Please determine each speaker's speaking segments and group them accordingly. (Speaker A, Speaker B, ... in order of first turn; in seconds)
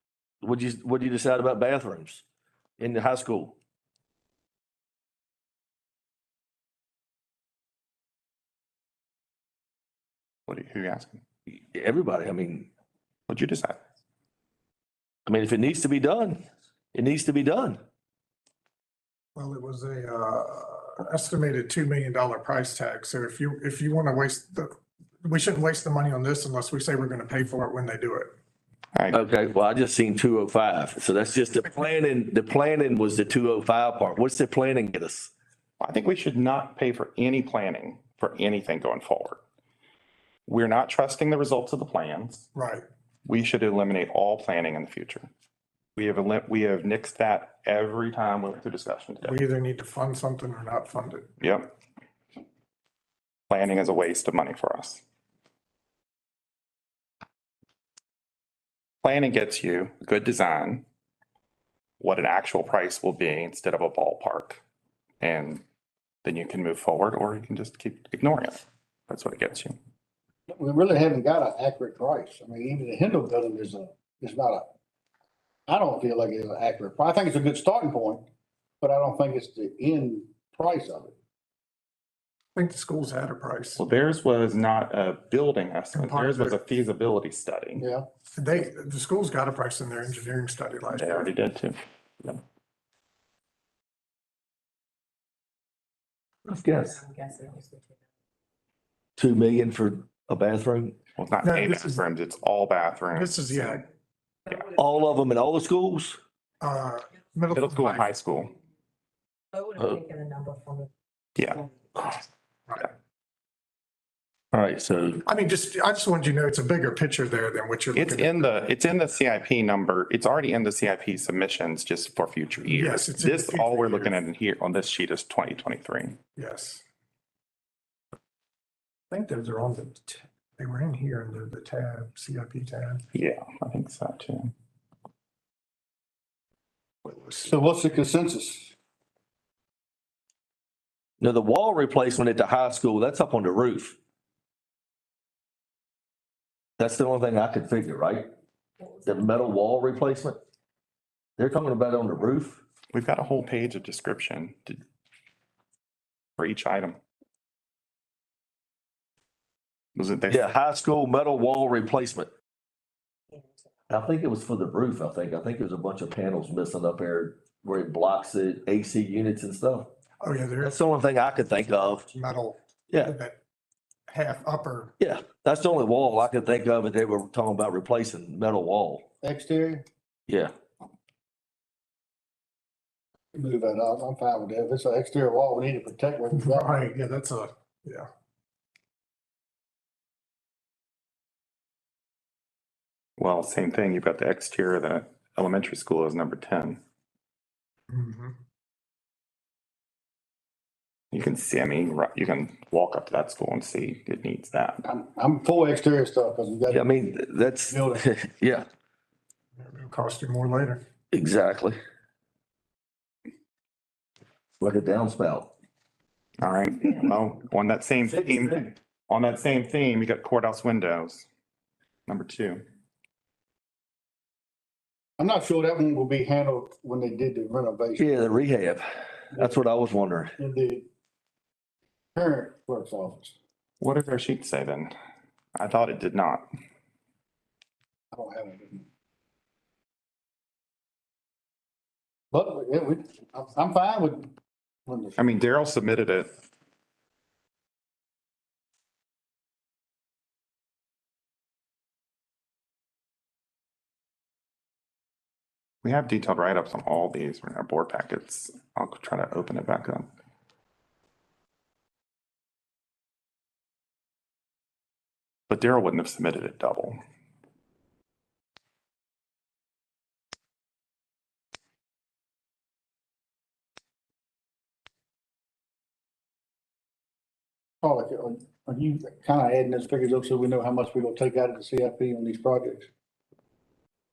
Speaker A: 0.4-2.2, 2.8-3.6, 11.5-12.7, 15.3-17.8, 29.1-35.3, 96.5-97.0, 99.2-101.0, 104.6-106.2, 114.5-115.2, 141.2-144.0, 146.8-148.3, 149.0-150.4, 151.4-152.6, 160.3-162.3, 163.9-169.9, 170.6-172.1, 172.9-173.2, 175.0-179.1, 180.3-180.5, 206.7-208.7, 211.1-211.8, 214.6-215.5, 228.0-230.3
Speaker B: 10.5-11.2, 13.3-13.8, 28.9-29.2, 35.8-39.4, 40.5-42.5, 43.3-45.3, 46.0-49.4, 51.4-51.7, 53.5-55.0, 59.0-60.9, 62.0-64.6, 65.2-65.6, 66.2-69.8, 83.8-87.8, 91.0-92.4, 101.2-103.8, 107.5-108.5, 111.4-111.7, 118.0-126.2, 133.1-134.5, 152.9-154.8, 156.4-157.0, 160.0-160.4, 193.2-196.8, 201.1-204.8, 216.4-221.3, 222.1-222.7, 233.8-234.9, 235.6-236.5, 245.2-246.3, 255.8-260.1, 265.5-267.0
Speaker C: 19.4-28.3, 42.5-42.9, 49.2-51.3, 82.5-83.8, 86.0-86.6, 88.3-91.3, 101.4-102.0, 103.1-103.8, 106.6-108.1, 115.3-118.6, 122.7-124.2, 126.4-126.8, 129.1-133.0, 137.1-137.4, 170.2-170.8, 172.1-173.4, 174.1-174.9, 186.3-188.1, 197.9-198.3, 209.6-210.8
Speaker D: 70.5-74.7, 75.7-78.3, 78.8-81.2, 87.8-88.1, 137.4-138.8, 179.2-179.8, 183.3-186.7, 204.8-206.9, 207.7-208.0, 225.2-228.1, 230.4-230.9, 232.2-233.3, 238.1-238.9, 242.3-244.3, 244.9-245.3, 277.8-282.9
Speaker E: 97.0-97.9, 109.5-110.9